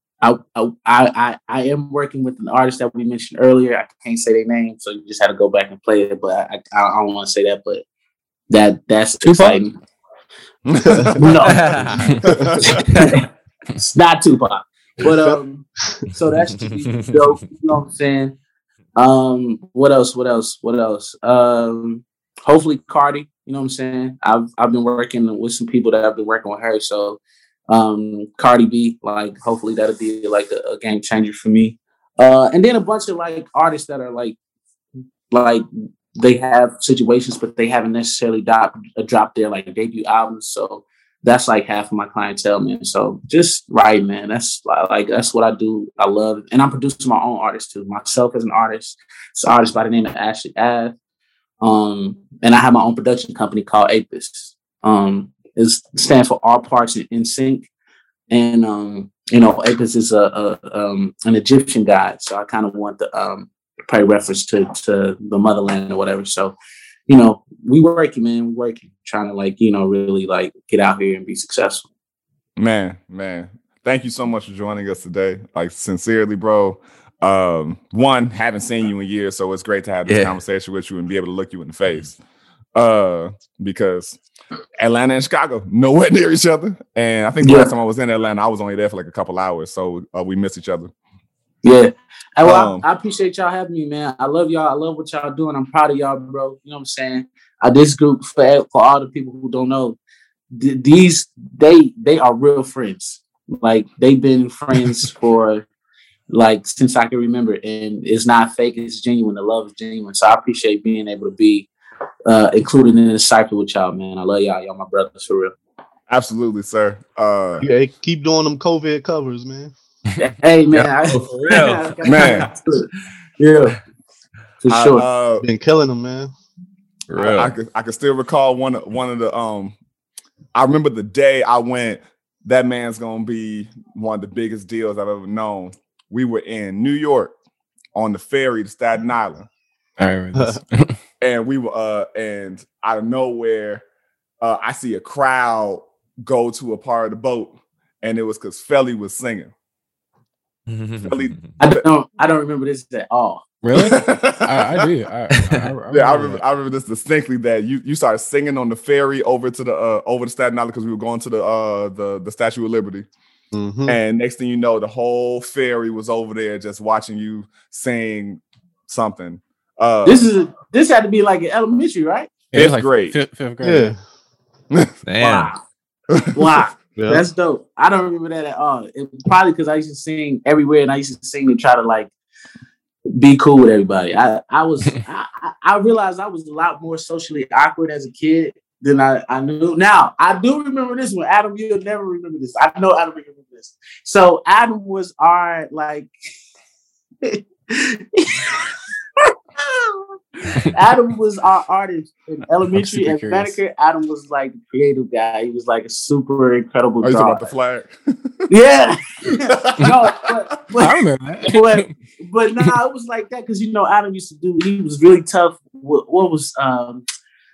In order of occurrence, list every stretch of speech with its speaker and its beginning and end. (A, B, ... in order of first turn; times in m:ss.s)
0:00.2-0:07.8 A
0:08.5-0:09.8 A
0:09.2-0:09.6 B
0:10.6-0:11.2 C
0:11.1-0:11.9 A
0:11.4-0:12.1 D
0:11.9-0:12.2 B
0:12.2-0:12.8 C
0:12.9-0:13.2 D
0:13.0-0:13.2 A
0:13.8-0:18.4 A
0:15.0-0:15.3 E
0:16.6-0:17.3 D
0:19.0-0:34.4 A
0:35.3-0:35.6 A
0:36.2-0:50.9 A
0:51.6-0:57.7 A
0:58.3-1:06.6 A
1:07.1-1:11.9 A
1:12.6-1:22.2 C
1:20.1-1:20.4 D
1:22.7-1:24.2 C
1:24.8-1:30.9 C
1:27.4-1:27.7 A
1:31.6-1:40.0 A
1:32.4-1:32.8 C
1:40.5-1:45.7 A
1:46.3-1:51.7 A
1:52.3-1:55.5 A
1:56.1-1:57.6 C
1:57.6-1:59.7 E
2:00.2-2:03.8 A
2:00.7-2:02.5 D
2:02.0-2:02.5 C
2:04.6-2:05.0 A
2:04.7-2:05.4 C
2:05.4-2:06.3 E
2:07.1-2:07.5 D
2:07.2-2:09.7 C
2:10.5-2:17.3 C
2:17.9-2:19.5 C
2:20.0-2:21.0 B
2:20.4-2:20.6 E
2:21.2-2:23.8 C
2:24.4-2:29.5 C
2:30.7-2:31.4 D
2:31.0-2:31.8 C
2:31.6-2:33.5 A
2:33.6-2:36.4 B
2:33.7-2:34.9 C
2:35.4-2:35.7 D
2:35.9-2:43.1 C
2:43.5-2:44.0 E
2:43.8-2:50.2 C
2:50.0-2:52.3 A
2:52.5-2:54.0 B
2:52.5-2:53.2 C
2:53.6-2:54.0 E
2:55.0-2:55.5 D
2:55.2-2:55.6 A
2:56.3-3:02.1 A
2:57.0-2:57.2 E
3:03.2-3:16.1 A
3:17.2-3:27.5 A
3:22.7-3:23.6 B
3:27.0-3:28.5 C
3:28.5-3:37.0 A
3:29.5-3:30.3 C
3:30.8-3:31.9 B